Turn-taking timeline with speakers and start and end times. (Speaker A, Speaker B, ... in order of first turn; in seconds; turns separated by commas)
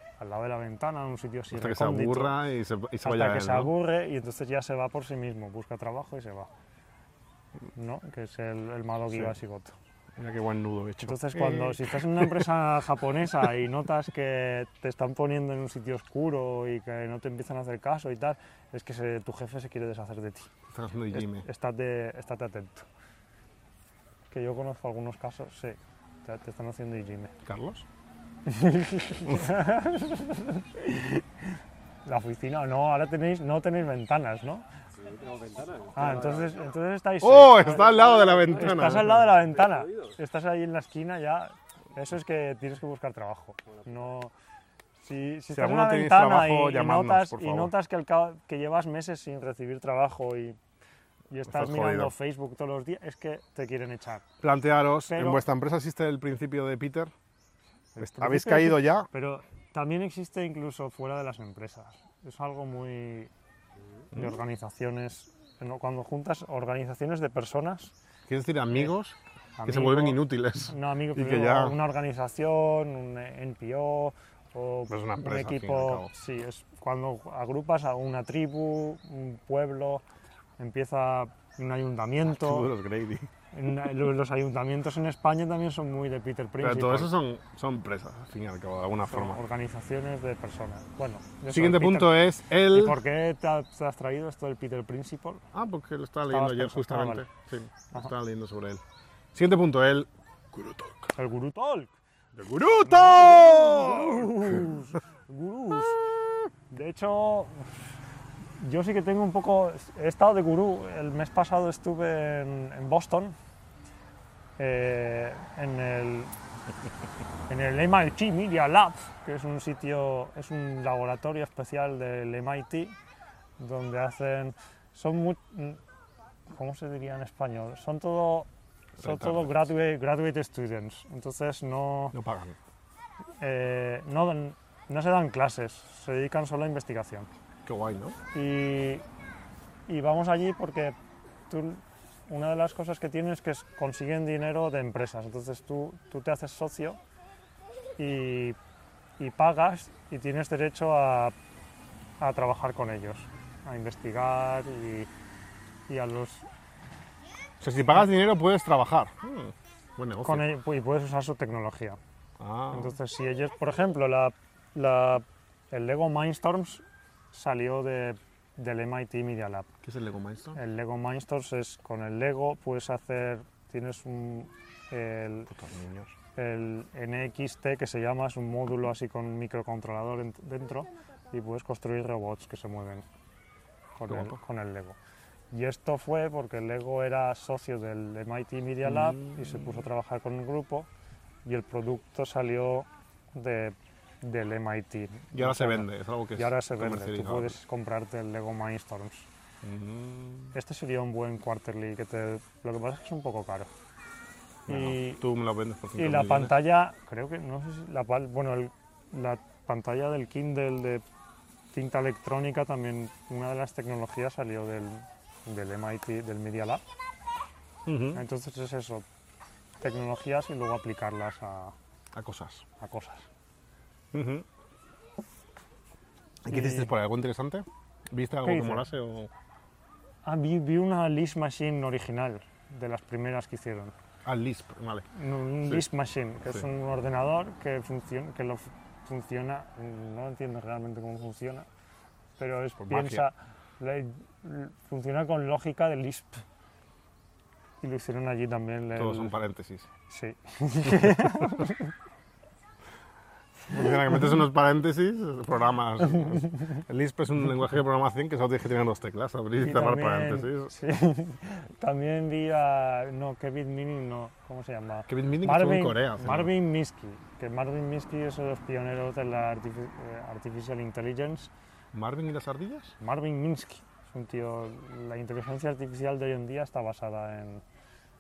Speaker A: 0.2-2.4, Speaker B: 1.5-3.7, Speaker A: 3.0-6.5, Speaker A: 7.8-9.7, Speaker B: 10.2-12.4, Speaker A: 11.0-20.5, Speaker B: 20.7-21.5, Speaker A: 21.1-22.9, Speaker A: 24.3-27.3, Speaker B: 27.4-27.9, Speaker A: 28.5-34.7, Speaker C: 35.0-36.6, Speaker A: 36.0-44.3, Speaker B: 37.2-39.3, Speaker C: 37.6-40.2, Speaker C: 43.7-44.0, Speaker A: 45.0-50.6, Speaker B: 45.5-47.7, Speaker A: 51.3-54.2, Speaker B: 51.5-52.1, Speaker B: 54.4-57.1, Speaker A: 55.1-55.4, Speaker A: 58.0-63.3, Speaker B: 58.0-59.1, Speaker A: 64.1-67.9, Speaker B: 68.3-71.8, Speaker A: 69.6-80.0, Speaker B: 74.9-76.1, Speaker A: 80.6-82.7, Speaker B: 82.3-83.3, Speaker A: 83.5-87.1, Speaker B: 86.6-89.4, Speaker A: 89.1-95.4, Speaker B: 91.5-93.0, Speaker B: 95.5-98.8, Speaker A: 96.3-97.3, Speaker B: 99.3-101.2, Speaker A: 101.2-102.0, Speaker B: 102.4-104.6, Speaker A: 102.8-106.0, Speaker A: 106.7-107.8, Speaker A: 108.6-113.4, Speaker A: 114.6-116.3, Speaker A: 117.5-122.9, Speaker A: 123.6-125.8, Speaker A: 126.5-128.5, Speaker B: 129.0-129.6, Speaker A: 129.0-132.2, Speaker B: 132.1-132.6, Speaker A: 133.4-137.3, Speaker B: 137.7-138.2, Speaker A: 138.3-139.0, Speaker A: 139.9-141.0, Speaker A: 141.5-147.0, Speaker A: 148.0-148.6, Speaker A: 149.2-151.3, Speaker A: 152.2-155.1, Speaker A: 155.9-156.5, Speaker B: 157.6-160.5, Speaker A: 160.2-162.0, Speaker B: 162.4-162.9, Speaker A: 162.7-169.7, Speaker B: 169.8-170.6, Speaker A: 170.6-175.5, Speaker B: 175.5-176.1, Speaker A: 176.3-183.1, Speaker A: 184.0-185.0, Speaker B: 184.1-184.4, Speaker A: 185.5-190.9, Speaker B: 188.9-189.8, Speaker A: 191.4-199.3, Speaker B: 195.3-197.6, Speaker B: 199.6-200.6, Speaker A: 200.5-203.7, Speaker B: 204.7-206.6, Speaker A: 204.7-205.2, Speaker A: 206.0-211.0, Speaker A: 211.7-216.8, Speaker B: 217.9-218.2, Speaker A: 218.1-219.1, Speaker A: 219.8-221.8, Speaker B: 222.1-222.7, Speaker A: 222.8-223.3, Speaker B: 224.1-224.4, Speaker B: 226.4-229.3, Speaker A: 226.5-226.9, Speaker A: 228.4-228.8, Speaker A: 230.2-233.9, Speaker B: 234.2-235.1, Speaker A: 235.1-241.7, Speaker A: 242.4-246.4, Speaker B: 242.8-243.3, Speaker A: 247.8-249.3, Speaker B: 249.0-249.9, Speaker A: 250.1-251.9, Speaker B: 253.7-260.7, Speaker A: 256.1-256.5, Speaker A: 259.6-271.5, Speaker B: 265.1-266.5, Speaker B: 271.9-273.0, Speaker A: 273.0-277.6